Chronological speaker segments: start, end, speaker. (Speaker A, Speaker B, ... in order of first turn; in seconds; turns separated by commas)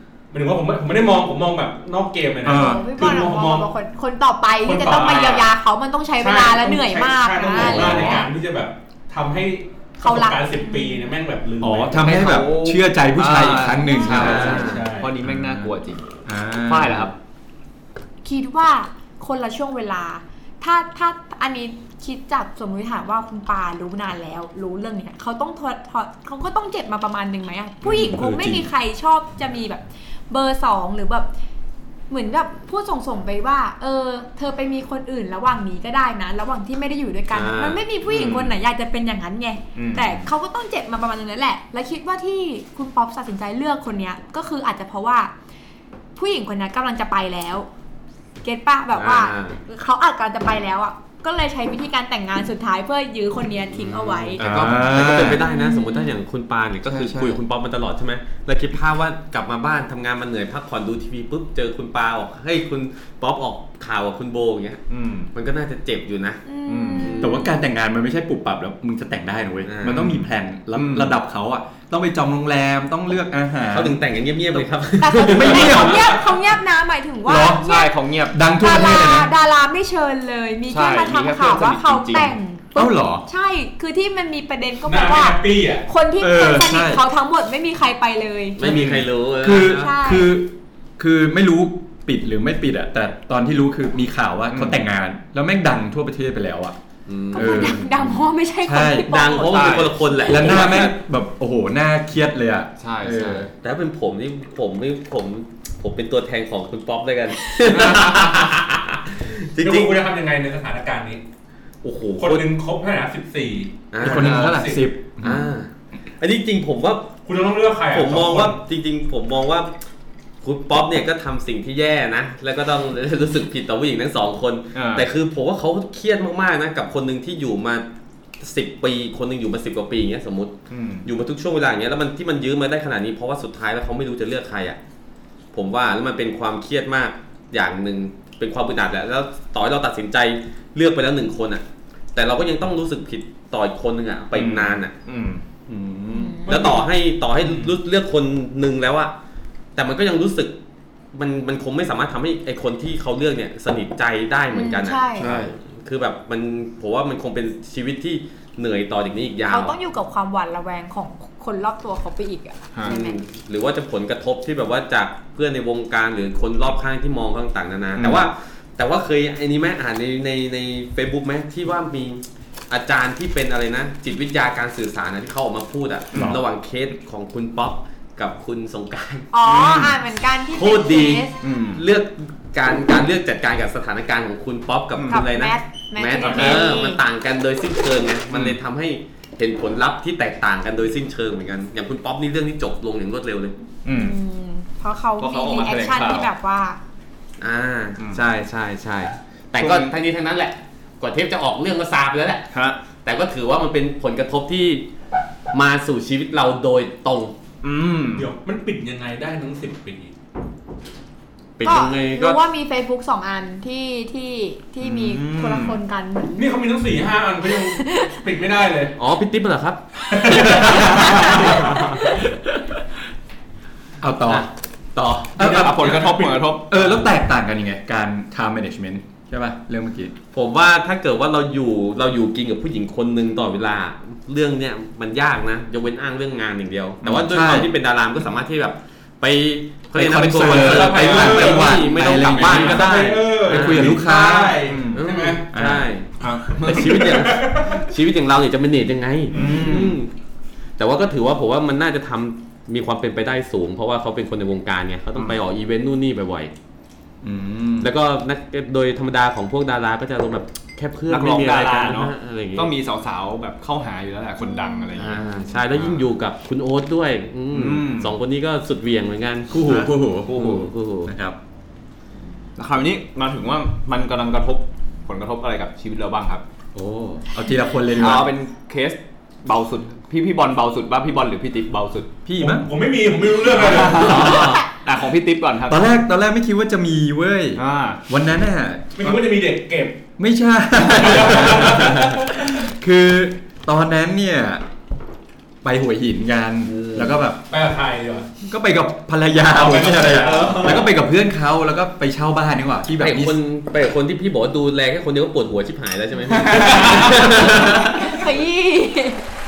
Speaker A: 0.3-3.7, Speaker B: 2.4-2.8, Speaker C: 2.5-8.3, Speaker A: 4.6-5.5, Speaker D: 5.0-5.3, Speaker A: 6.2-12.1, Speaker B: 7.6-8.0, Speaker D: 7.6-8.2, Speaker C: 10.0-11.1, Speaker B: 11.6-14.7, Speaker D: 12.0-16.0, Speaker E: 14.1-14.9, Speaker A: 14.2-15.2, Speaker B: 15.2-17.1, Speaker D: 16.6-17.1, Speaker C: 18.2-31.3, Speaker B: 27.8-28.7, Speaker C: 32.1-45.3, Speaker E: 37.3-37.8, Speaker D: 38.1-38.5, Speaker D: 39.8-40.3, Speaker C: 46.1-47.7, Speaker C: 48.4-54.4, Speaker E: 48.9-49.6, Speaker E: 53.7-66.4, Speaker B: 54.4-55.4, Speaker C: 55.3-56.1, Speaker B: 56.8-57.4, Speaker D: 64.9-65.3, Speaker C: 66.5-67.1, Speaker D: 66.7-67.2, Speaker E: 67.0-67.5, Speaker B: 67.2-74.0, Speaker E: 69.6-70.2, Speaker D: 70.7-71.1, Speaker E: 73.7-75.8, Speaker C: 75.0-77.9, Speaker B: 75.2-76.2, Speaker A: 75.6-76.2, Speaker B: 77.2-77.7, Speaker D: 77.6-78.4, Speaker B: 78.3-79.3, Speaker C: 78.6-88.8, Speaker D: 80.7-82.3, Speaker B: 82.7-83.2, Speaker A: 84.8-85.9, Speaker B: 86.2-87.0, Speaker E: 88.6-89.9, Speaker B: 88.6-96.8, Speaker C: 89.5-90.3, Speaker D: 94.5-94.8, Speaker E: 97.1-97.8, Speaker B: 97.3-99.5, Speaker C: 97.3-99.6, Speaker E: 99.1-101.0, Speaker D: 99.4-99.9, Speaker B: 100.2-103.5, Speaker D: 102.8-103.5, Speaker E: 103.6-110.0, Speaker D: 107.7-108.3, Speaker A: 109.6-111.2, Speaker D: 111.8-112.4, Speaker A: 112.2-114.9, Speaker E: 113.9-114.5, Speaker B: 114.0-115.5, Speaker E: 115.2-117.2, Speaker A: 117.2-118.6, Speaker E: 117.9-119.7, Speaker E: 120.4-127.8, Speaker D: 124.7-125.0, Speaker E: 128.4-134.8, Speaker D: 130.7-131.1, Speaker E: 135.5-141.6, Speaker E: 142.1-144.9, Speaker D: 144.3-145.4, Speaker B: 145.7-146.4, Speaker C: 146.1-146.6, Speaker A: 146.4-146.9, Speaker E: 146.4-149.1, Speaker A: 147.4-147.7, Speaker E: 149.8-150.6, Speaker E: 151.1-159.8, Speaker C: 154.5-155.2, Speaker D: 155.2-155.5, Speaker C: 159.5-163.2, Speaker E: 162.8-179.3, Speaker D: 167.9-168.2, Speaker D: 176.1-176.4, Speaker C: 179.3-181.3, Speaker D: 179.4-180.0, Speaker E: 180.5-193.6, Speaker D: 181.4-181.8, Speaker D: 184.9-185.2, Speaker C: 185.1-187.0, Speaker D: 186.2-186.7, Speaker D: 193.8-194.2, Speaker C: 193.9-196.8, Speaker D: 195.2-196.3, Speaker E: 197.4-202.5, Speaker D: 198.0-198.2, Speaker D: 199.6-199.9, Speaker D: 202.5-202.8, Speaker E: 203.0-204.8, Speaker E: 205.5-207.3, Speaker D: 207.6-208.3, Speaker A: 208.1-210.1, Speaker E: 211.6-212.4, Speaker C: 211.6-216.4, Speaker D: 214.8-215.8, Speaker A: 216.3-218.9, Speaker C: 217.8-218.1, Speaker E: 219.0-221.8, Speaker A: 220.1-222.2, Speaker B: 224.0-224.5, Speaker E: 224.3-225.5, Speaker B: 225.4-230.2, Speaker D: 225.4-226.8, Speaker A: 225.9-226.4, Speaker E: 230.3-244.0, Speaker B: 237.0-237.7, Speaker B: 239.9-246.4, Speaker A: 240.4-245.4, Speaker D: 244.7-245.0, Speaker E: 244.9-246.1, Speaker D: 246.2-246.8, Speaker A: 246.5-247.9, Speaker E: 246.6-250.1, Speaker B: 249.3-250.0, Speaker A: 249.3-249.7, Speaker D: 249.4-249.8, Speaker E: 250.8-256.5, Speaker B: 257.2-257.9, Speaker E: 257.8-262.7, Speaker D: 261.1-266.0, Speaker C: 264.4-264.9, Speaker E: 265.0-271.1, Speaker D: 267.5-268.1, Speaker B: 269.5-271.4, Speaker D: 270.3-270.7, Speaker D: 272.6-276.4, Speaker B: 276.7-278.3, Speaker D: 277.9-282.1, Speaker B: 282.2-282.7, Speaker A: 282.4-284.4, Speaker D: 283.5-286.0, Speaker E: 283.9-284.6, Speaker B: 285.6-289.2, Speaker D: 287.6-288.0, Speaker A: 288.9-290.0, Speaker B: 290.2-294.6, Speaker A: 290.9-291.9, Speaker B: 295.6-297.4, Speaker E: 296.6-297.2, Speaker A: 297.5-298.3, Speaker B: 298.5-303.4, Speaker A: 299.5-300.8, Speaker D: 300.2-300.8, Speaker E: 303.0-308.1, Speaker D: 306.3-307.4, Speaker C: 307.6-309.2